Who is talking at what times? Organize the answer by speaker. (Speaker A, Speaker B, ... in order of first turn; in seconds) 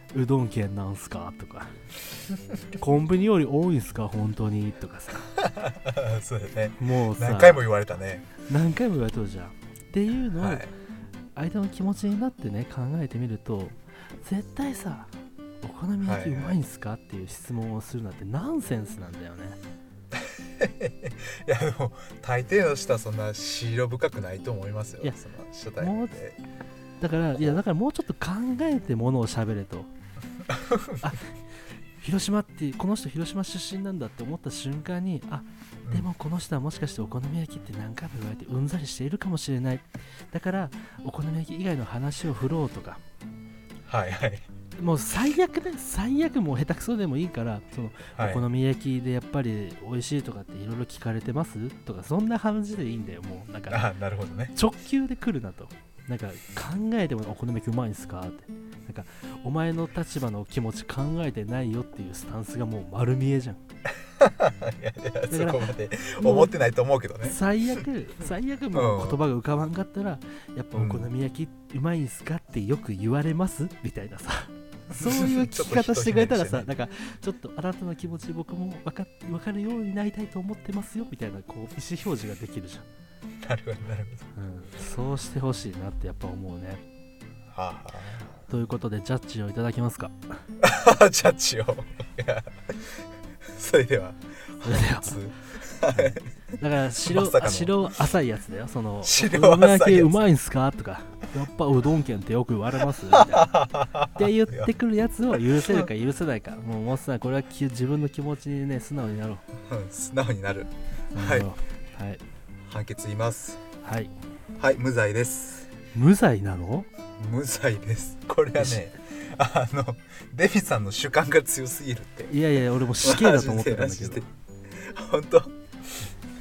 Speaker A: 0.1-1.8, 2.8-5.3, 6.8-7.6, 8.5-10.7, 11.3-15.1, 15.6-19.6, 25.8-26.2, 27.0-29.9, 31.0-31.3, 32.0-43.0, 44.8-53.9, 54.5-63.6, 65.3-66.5, 67.2-82.8, 84.3-86.8, 88.5-90.4, 94.6-95.2, 95.9-103.5, 104.2-109.5, 111.1-112.2, 113.8-114.2, 115.9-116.9, 122.3-124.2
Speaker B: 5.4-8.3, 10.4-10.7, 16.0-16.6, 20.1-26.4, 30.5-31.1, 43.9-44.5, 48.2-48.5, 53.7-54.5, 64.1-67.4, 68.7-69.2, 70.8-71.1, 74.9-76.7, 83.4-84.3, 87.5-88.4, 90.6-96.2, 97.0-97.9, 99.0-100.2, 103.1-104.7, 105.5-105.9, 109.6-111.5, 112.6-113.6, 114.6-115.7, 117.2-122.3, 123.0-125.6